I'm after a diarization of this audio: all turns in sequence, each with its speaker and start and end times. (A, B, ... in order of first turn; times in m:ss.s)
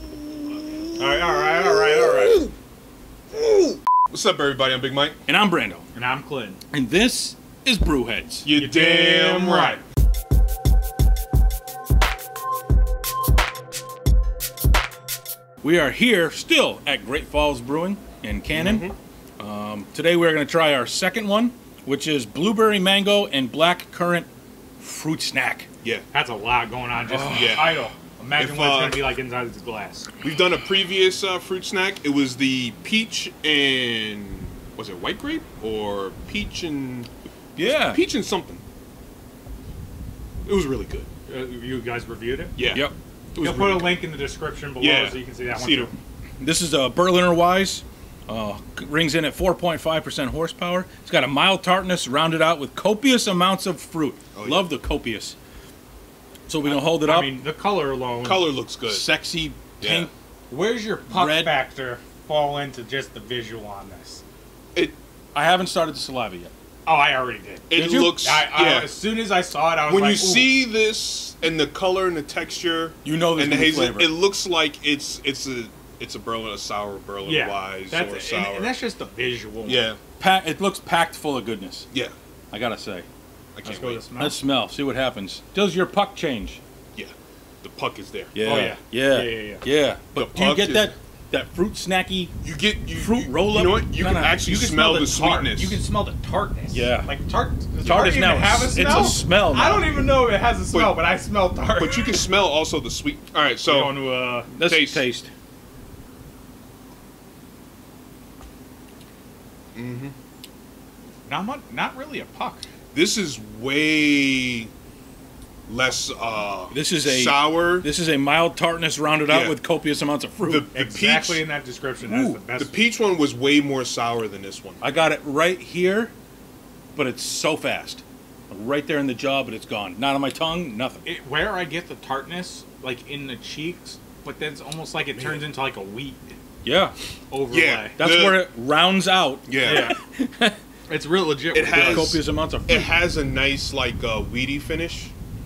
0:01.0-0:02.5 A
0:01.4-0:02.4 B
0:03.3-0:05.2 B
0:05.3-0:05.8 C
0:05.9-0:06.6 A
0:06.7-0:08.5 C
0:08.4-0:09.8 B
0:08.6-0:09.8 A
0:15.6-0:24.3 C
0:18.5-0:19.0 B
0:24.8-0:25.7 C
0:26.1-0:30.1 A
0:27.1-0:27.9 C
0:27.3-0:27.7 B
0:28.4-0:29.1 B
0:30.2-0:38.6 B
0:37.6-0:38.0 C
0:40.4-0:41.1 B
0:41.3-0:42.6 A
0:42.6-0:44.0 B
0:42.7-0:42.9 C
0:43.4-0:46.0 A
0:44.8-0:45.9 B
0:46.4-0:55.4 C
0:54.3-0:54.7 B
0:56.5-0:57.4 C
0:56.6-0:58.5 A
0:58.2-0:59.1 B
0:58.8-1:00.1 C
0:59.8-1:00.1 B
1:00.5-1:04.2 A
1:01.1-1:01.5 C
1:05.3-1:06.5 C
1:06.8-1:10.6 A
1:07.7-1:09.0 B
1:07.7-1:08.2 C
1:09.8-1:18.8 B
1:13.0-1:14.2 C
1:17.2-1:19.9 A
1:19.6-1:20.0 B
1:20.2-1:21.9 C
1:22.5-1:23.0 C
1:23.6-1:24.1 B
1:23.6-1:24.4 A
1:24.2-1:26.6 C
1:26.9-1:28.8 B
1:28.3-1:32.3 C
1:28.4-1:29.6 A
1:30.1-1:30.9 B
1:32.4-1:35.8 B
1:32.9-1:34.4 C
1:34.3-1:42.2 A
1:36.7-1:37.1 C
1:37.8-1:38.1 B
1:37.8-1:39.9 C
1:38.7-1:39.2 B
1:40.7-1:41.0 B
1:41.8-1:44.0 B
1:43.6-1:44.5 A
1:44.5-1:45.3 C
1:44.6-1:45.0 B
1:49.7-1:50.1 B
1:51.3-1:52.6 A
1:52.9-1:54.7 B
1:55.7-1:57.9 B
1:56.7-2:00.7 C
1:59.3-1:59.6 B
2:00.4-2:01.4 B
2:00.7-2:02.8 A
2:02.0-2:02.4 C
2:02.5-2:04.8 B
2:04.8-2:06.1 C
2:06.9-2:11.0 C
2:11.0-2:16.4 A
2:15.1-2:15.4 B
2:16.6-2:17.0 C
2:17.3-2:18.0 A
2:17.5-2:18.5 B
2:18.0-2:20.6 C
2:19.5-2:19.9 B
2:19.6-2:20.0 A
2:20.9-2:22.2 A
2:21.5-2:25.1 B
2:21.7-2:22.9 C